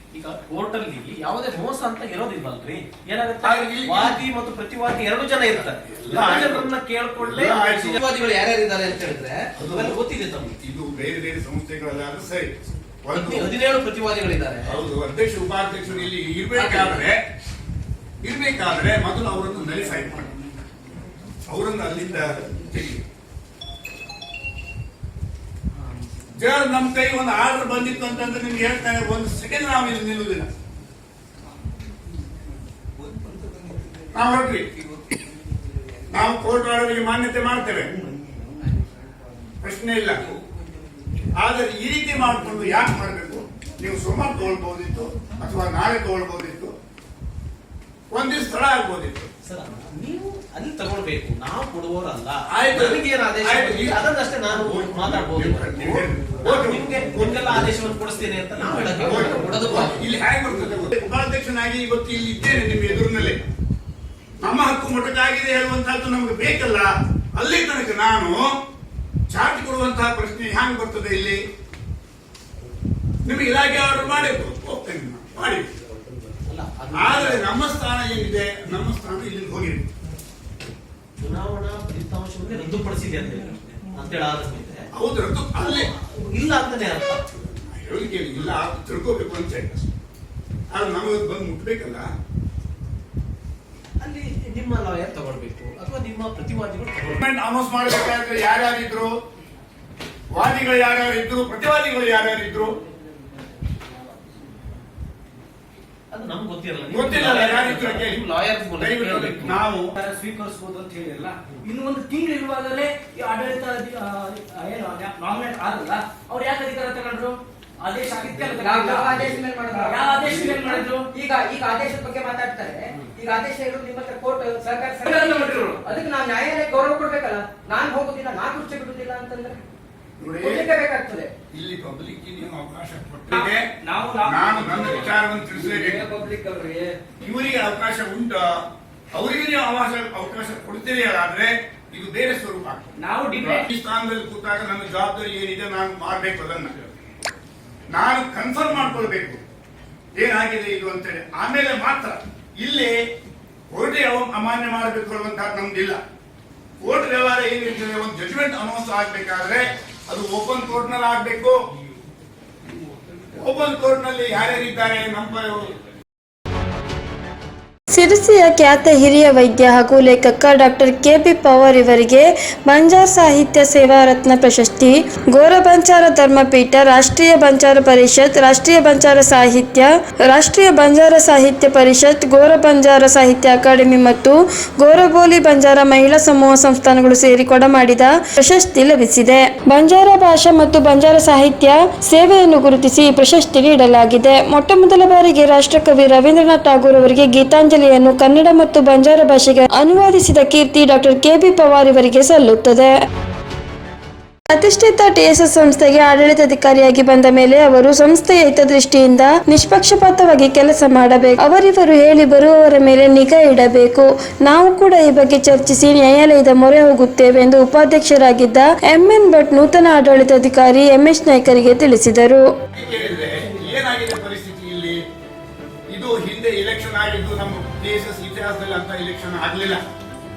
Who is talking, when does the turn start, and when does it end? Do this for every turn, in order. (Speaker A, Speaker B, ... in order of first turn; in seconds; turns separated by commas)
Speaker A: 0.1-10.6, Speaker B: 3.4-4.2, Speaker B: 5.8-8.0, Speaker B: 9.6-10.0, Speaker B: 10.5-12.5, Speaker B: 13.0-13.5, Speaker A: 13.2-14.7, Speaker B: 14.7-17.2, Speaker A: 16.6-17.0, Speaker B: 18.2-20.3, Speaker B: 21.5-23.0, Speaker B: 26.4-30.5, Speaker B: 34.1-34.7, Speaker B: 36.1-37.9, Speaker B: 39.6-40.2, Speaker B: 41.4-46.8, Speaker B: 48.1-49.3, Speaker A: 49.4-60.1, Speaker B: 52.5-57.2, Speaker B: 59.0-63.4, Speaker B: 64.4-68.5, Speaker B: 69.3-71.4, Speaker B: 73.2-75.7, Speaker A: 76.5-77.5, Speaker B: 77.0-79.9, Speaker A: 81.2-84.9, Speaker B: 84.9-85.9, Speaker A: 86.2-87.3, Speaker B: 87.5-89.9, Speaker B: 90.7-92.1, Speaker A: 94.0-97.2, Speaker B: 97.1-99.1, Speaker B: 100.3-102.8, Speaker A: 106.1-109.6, Speaker B: 106.9-108.2, Speaker B: 108.8-109.9, Speaker C: 110.0-119.1, Speaker D: 118.3-129.6, Speaker C: 119.8-121.1, Speaker C: 125.1-125.8, Speaker B: 130.2-130.7, Speaker D: 130.4-131.3, Speaker B: 131.5-133.7, Speaker C: 133.3-137.0, Speaker B: 134.2-136.1, Speaker B: 137.2-146.7, Speaker C: 143.0-143.7, Speaker B: 147.9-149.4, Speaker B: 150.2-153.0, Speaker B: 153.7-156.0, Speaker B: 156.8-161.6, Speaker B: 163.3-165.7, Speaker E: 167.9-203.0, Speaker E: 204.5-222.4, Speaker B: 222.7-225.0, Speaker B: 225.9-229.8